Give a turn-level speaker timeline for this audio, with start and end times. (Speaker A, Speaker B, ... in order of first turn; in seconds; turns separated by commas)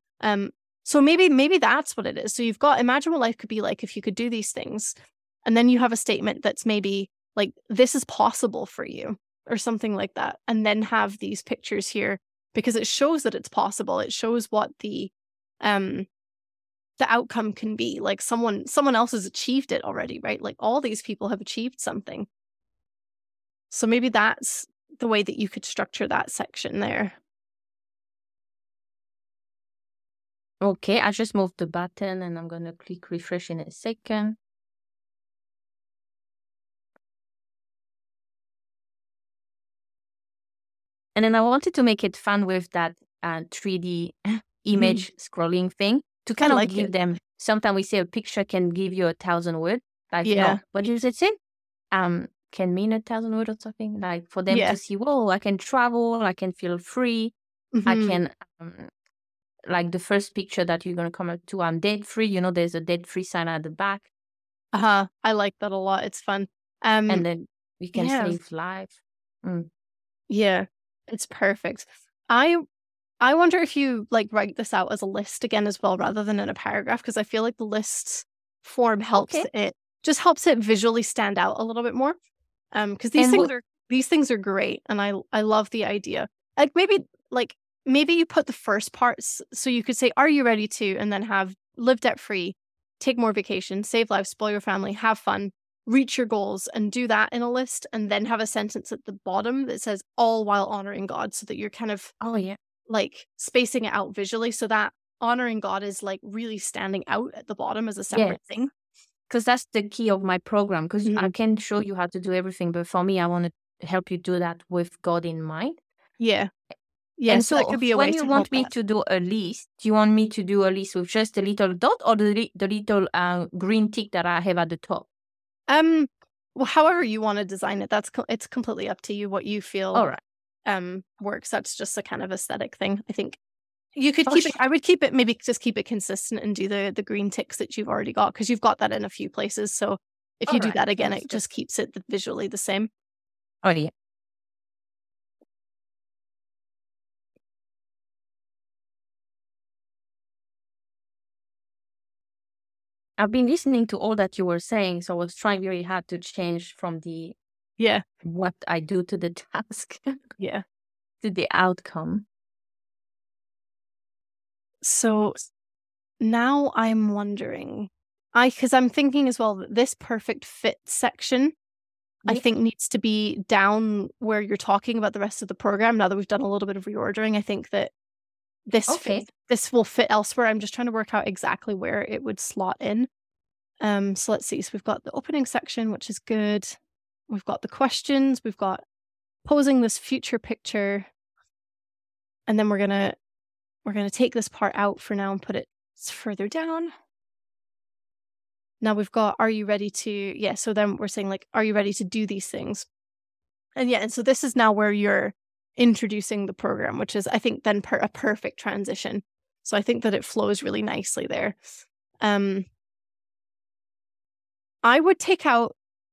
Speaker A: 0.2-16.1, Speaker A: 17.0-22.3, Speaker A: 23.7-27.2, Speaker B: 30.6-34.4, Speaker B: 41.1-51.4, Speaker A: 44.7-45.0, Speaker A: 46.4-46.9, Speaker A: 50.2-50.6, Speaker B: 51.9-57.3, Speaker A: 54.5-54.8, Speaker A: 57.7-58.2, Speaker B: 57.9-58.9, Speaker B: 59.7-64.1, Speaker A: 64.7-67.2, Speaker B: 67.1-69.7, Speaker A: 68.0-68.4, Speaker A: 70.3-72.6, Speaker A: 73.2-82.2, Speaker B: 79.2-79.5, Speaker A: 82.7-102.1, Speaker B: 83.2-83.5, Speaker B: 102.2-102.6, Speaker A: 102.9-108.7, Speaker B: 108.1-108.4, Speaker B: 109.3-115.8, Speaker A: 111.1-111.3, Speaker A: 116.2-116.5, Speaker A: 117.2-118.7, Speaker B: 117.3-125.1, Speaker A: 125.7-130.1, Speaker B: 129.9-130.2, Speaker A: 130.7-133.4, Speaker A: 134.0-142.9, Speaker B: 134.3-134.6, Speaker B: 140.5-141.4, Speaker B: 143.6-143.9, Speaker B: 153.2-157.4, Speaker A: 157.8-158.0, Speaker B: 158.2-160.2, Speaker A: 160.4-160.6, Speaker B: 161.2-162.2, Speaker A: 164.8-165.4, Speaker A: 166.2-171.5, Speaker A: 172.3-177.9, Speaker A: 178.7-183.1, Speaker B: 178.9-179.3, Speaker A: 183.8-186.8, Speaker A: 187.3-188.8, Speaker A: 189.4-191.1, Speaker A: 192.5-193.2, Speaker A: 193.8-196.9, Speaker A: 198.8-202.9, Speaker A: 203.8-211.6, Speaker A: 212.2-212.7, Speaker A: 214.8-215.7